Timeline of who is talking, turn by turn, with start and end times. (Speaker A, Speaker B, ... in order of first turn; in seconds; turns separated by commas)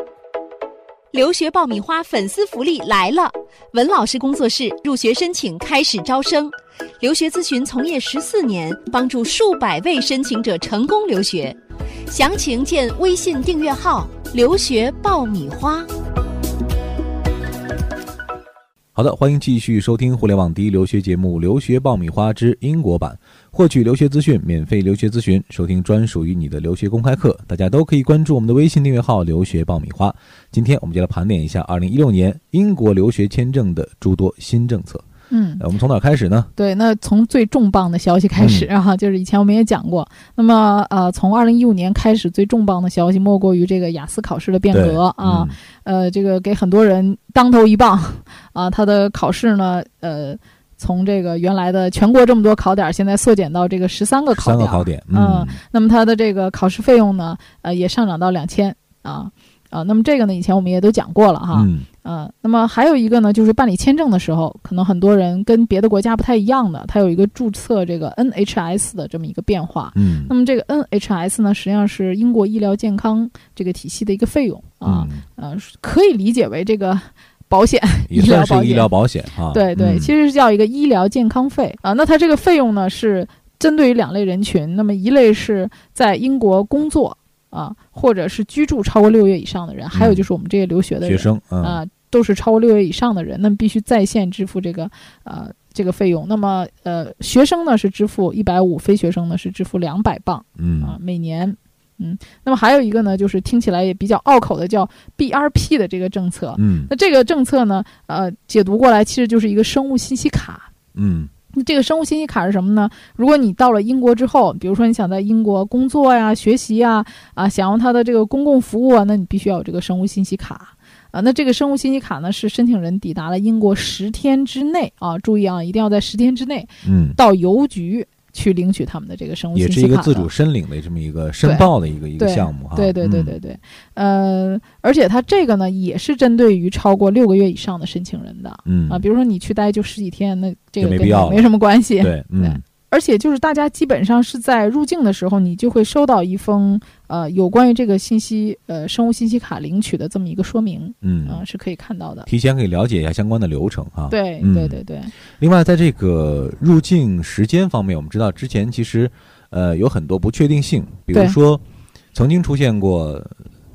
Speaker A: 1.1-11.6, Speaker A: 12.1-15.9, Speaker B: 18.9-35.0, Speaker C: 35.3-35.6, Speaker B: 35.6-36.5, Speaker C: 36.5-78.9, Speaker B: 38.4-38.7, Speaker B: 44.7-45.5, Speaker B: 54.3-55.6, Speaker B: 61.5-61.9, Speaker B: 69.9-70.3, Speaker B: 74.8-75.2, Speaker B: 78.1-80.1, Speaker C: 79.5-110.7, Speaker B: 89.9-90.2, Speaker B: 91.0-91.8, Speaker B: 100.6-101.0, Speaker B: 106.6-106.9, Speaker B: 110.9-111.3, Speaker C: 111.5-130.3, Speaker B: 126.8-127.2, Speaker B: 129.5-133.3, Speaker C: 131.4-152.3, Speaker B: 138.7-139.0, Speaker B: 140.8-141.5, Speaker B: 142.0-142.6, Speaker B: 151.0-151.4, Speaker B: 152.3-154.8, Speaker C: 154.1-155.1, Speaker B: 155.4-161.6, Speaker B: 162.1-163.3